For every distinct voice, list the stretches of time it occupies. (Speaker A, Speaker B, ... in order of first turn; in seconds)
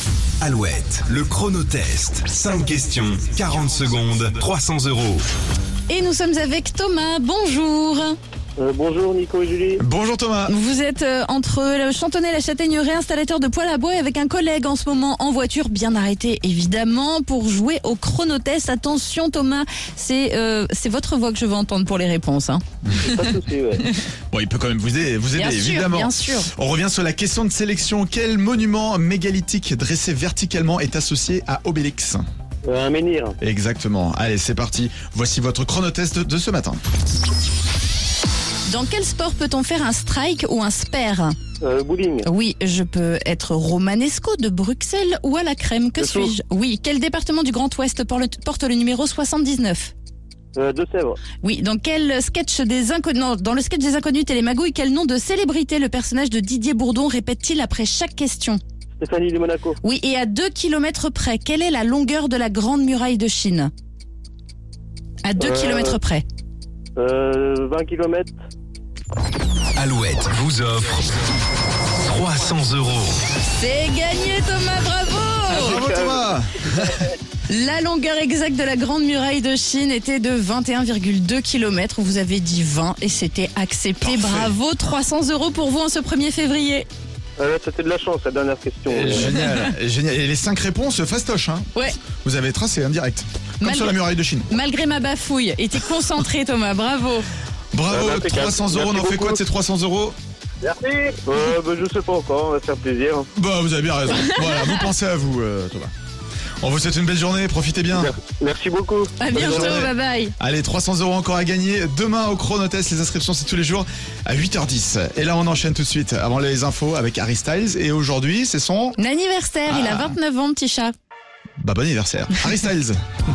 Speaker A: 0.4-5.3, 69.8-71.1, 72.0-73.2
Speaker B: 5.9-8.2, 10.5-23.1, 25.3-26.5, 38.7-41.4, 42.2-49.9, 51.4-58.6, 59.8-63.7, 65.2-66.2, 73.5-75.8, 77.5-86.9, 89.2-89.7, 93.6-97.3, 104.1-104.8, 109.2-110.3, 119.0-120.9
Speaker C: 8.6-9.8, 23.0-23.8, 32.6-33.4, 41.6-42.3, 46.0-46.3, 50.5-51.2, 59.0-59.8, 65.4-66.0, 67.0-68.3, 75.6-76.3, 87.4-89.4, 97.9-99.4, 100.6-103.3, 107.9-109.8
Speaker D: 9.8-10.5, 24.3-32.2, 33.4-36.8, 75.5-77.0, 84.0-84.5, 88.9-94.5, 97.7-100.2, 103.3-105.9, 106.6-108.1, 109.3-119.0, 119.7-120.1, 121.6-123.0